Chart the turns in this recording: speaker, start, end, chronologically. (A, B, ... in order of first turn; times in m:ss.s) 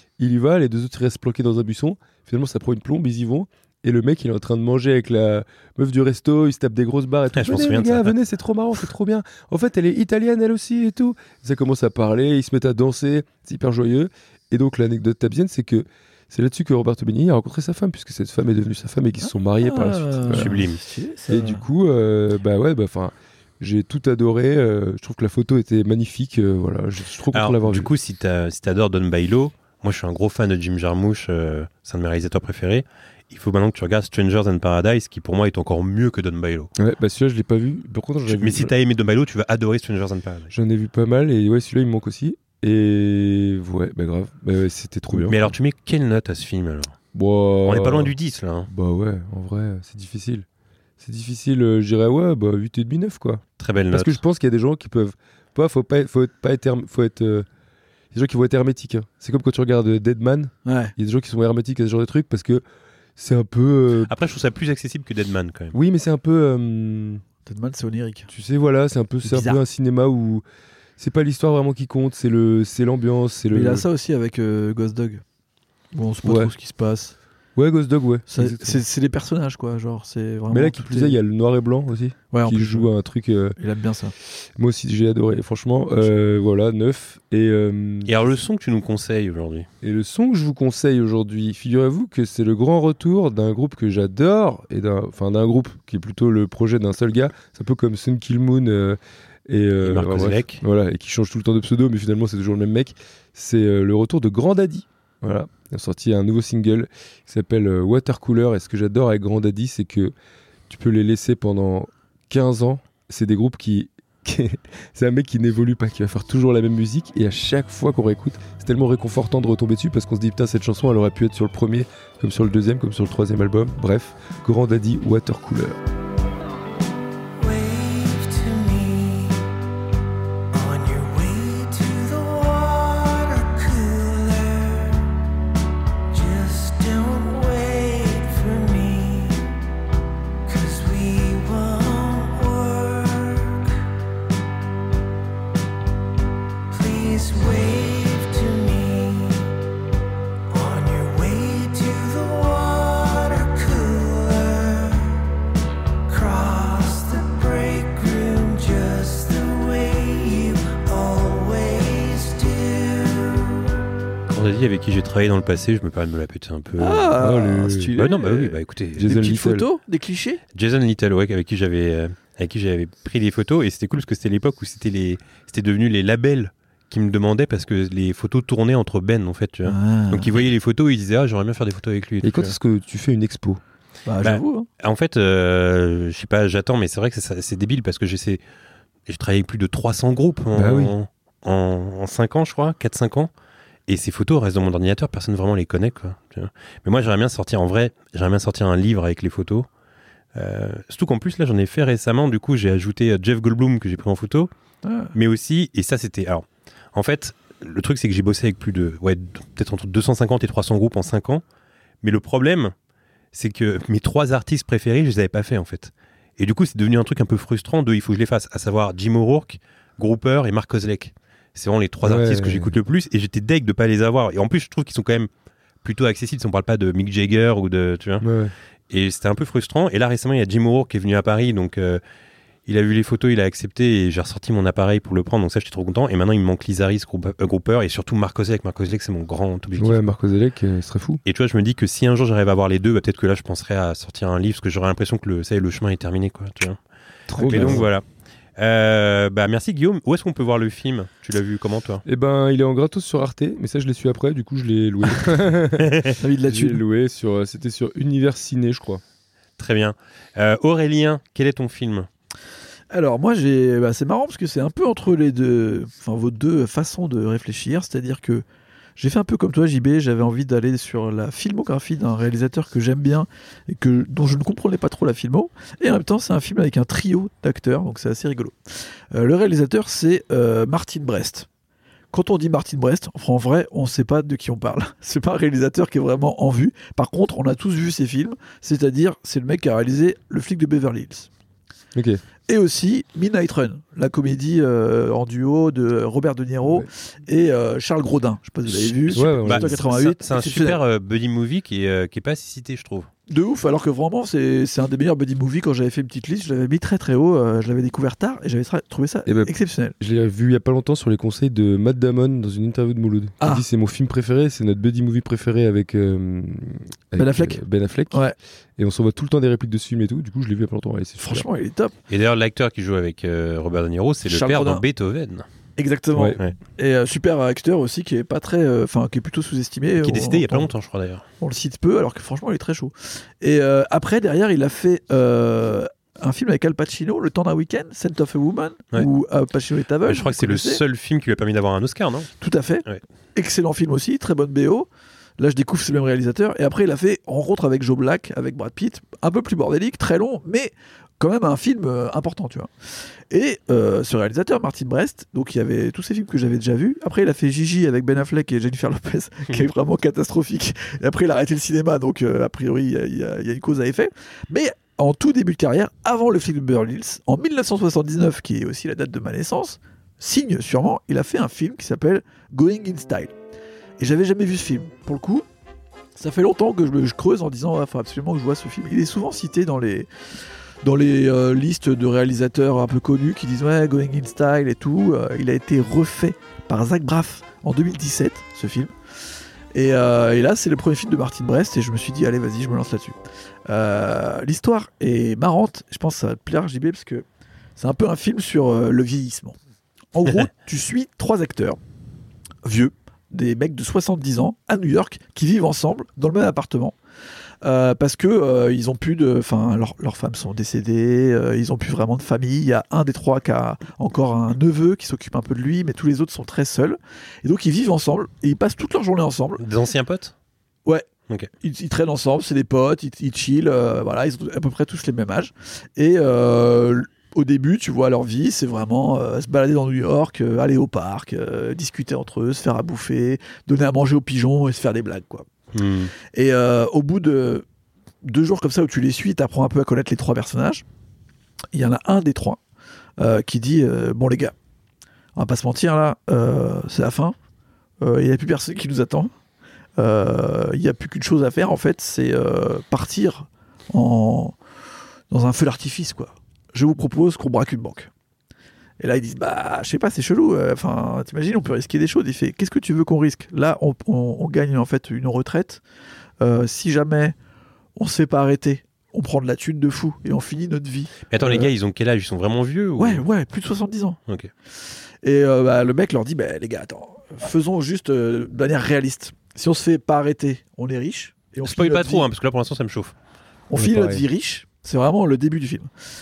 0:00.2-0:20.6 A
0:07.3-0:08.1 B
0:19.2-0:21.6 C
0:20.3-0:20.8 B
0:21.3-0:27.9 A
0:27.3-0:36.7 B
0:36.8-0:38.7 A
0:38.3-0:40.5 B
0:40.5-0:45.5 A
0:45.1-0:47.0 B
0:47.1-0:48.1 A
0:47.6-0:48.7 B
0:48.7-0:50.4 A
0:51.0-0:57.5 A
0:53.6-0:54.2 B
0:58.1-1:02.6 A
1:00.6-1:00.9 C
1:03.2-1:04.1 A
1:04.1-1:05.8 B
1:05.7-1:07.2 A
1:07.4-1:08.3 C
1:08.3-1:10.4 A
1:09.2-1:09.6 C
1:11.0-1:13.8 A
1:13.5-1:15.2 C
1:15.9-1:17.1 C
1:16.2-1:16.5 A
1:17.6-1:18.8 A
1:18.3-1:21.2 C
1:20.5-1:23.6 A
1:22.3-1:22.9 C
1:23.6-1:24.1 C
1:24.6-1:28.1 A
1:28.0-1:29.7 B
1:29.8-1:50.1 A
1:39.8-1:40.6 B
1:50.7-2:05.8 A
2:07.4-2:09.4 D
2:10.5-2:15.0 D
2:16.1-2:19.5 D
2:20.4-2:23.8 D
2:26.7-2:29.5 D
2:30.5-2:35.2 D
2:36.1-2:43.6 D
2:44.3-2:47.1 B
2:46.8-2:50.4 C
2:47.2-2:47.9 A
2:48.0-2:49.1 B
2:49.0-2:49.7 A
2:50.5-3:02.5 B
2:59.6-3:00.3 C
3:02.2-3:03.6 A
3:04.0-3:04.7 C
3:04.2-3:08.4 B
3:09.1-3:13.3 B
3:10.5-3:10.9 A
3:13.9-3:19.7 B
3:20.3-3:24.5 B
3:24.8-3:25.1 C
3:25.1-3:31.4 B
3:32.0-3:32.7 B
3:33.3-3:45.3 B
3:42.0-3:42.8 A
3:45.8-3:48.2 B
3:48.2-3:48.5 A
3:48.9-3:52.0 B
3:52.7-4:00.0 B
3:59.8-4:01.2 A
4:01.2-4:06.8 B
4:07.3-4:07.9 A
4:07.4-4:08.0 B
4:07.4-4:07.8 C
4:08.6-4:12.0 B
4:12.0-4:19.0 A
4:15.8-4:16.2 B
4:16.2-4:16.8 C
4:19.6-4:22.1 B
4:22.9-4:28.4 C
4:29.0-4:38.5 C
4:39.1-4:41.5 C
4:42.1-4:51.3 C
4:51.9-4:52.2 A
4:52.5-5:00.8 C
4:58.7-5:03.1 B
4:59.1-4:59.8 A
5:03.3-5:09.9 C
5:09.2-5:18.2 A
5:13.4-5:13.6 C
5:17.2-5:18.3 C
5:18.8-5:21.5 A
5:21.2-5:21.9 C
5:22.1-5:25.4 B
5:24.2-5:24.8 C
5:25.8-5:30.7 C
5:30.0-5:31.2 B
5:31.4-5:40.8 C
5:40.0-5:42.3 B
5:42.4-5:44.9 C
5:45.4-5:52.7 C
5:53.3-6:13.3 C
6:14.0-6:15.4 C
6:16.2-6:20.1 C
6:20.8-6:28.9 C
6:29.7-6:33.2 C
6:33.7-6:37.2 C
6:37.8-6:39.6 C
6:40.1-6:41.8 C
6:42.6-6:46.9 C
6:47.6-6:59.6 C
6:59.6-7:00.3 B
7:01.6-7:15.5 C
7:15.7-7:16.1 B
7:16.3-7:17.6 C
7:18.2-7:20.8 C
7:21.7-7:22.6 C
7:23.2-7:24.5 C
7:25.4-7:27.3 C
7:28.0-7:29.3 C
7:30.0-7:34.6 C
7:35.3-7:38.1 C
7:39.0-7:45.8 C
7:46.4-7:47.3 C
7:48.0-7:51.7 C
7:51.3-7:53.2 B
7:53.0-7:54.2 C
7:55.2-8:02.3 C
8:01.6-8:03.1 B
8:03.7-8:05.9 C
8:03.8-8:04.2 A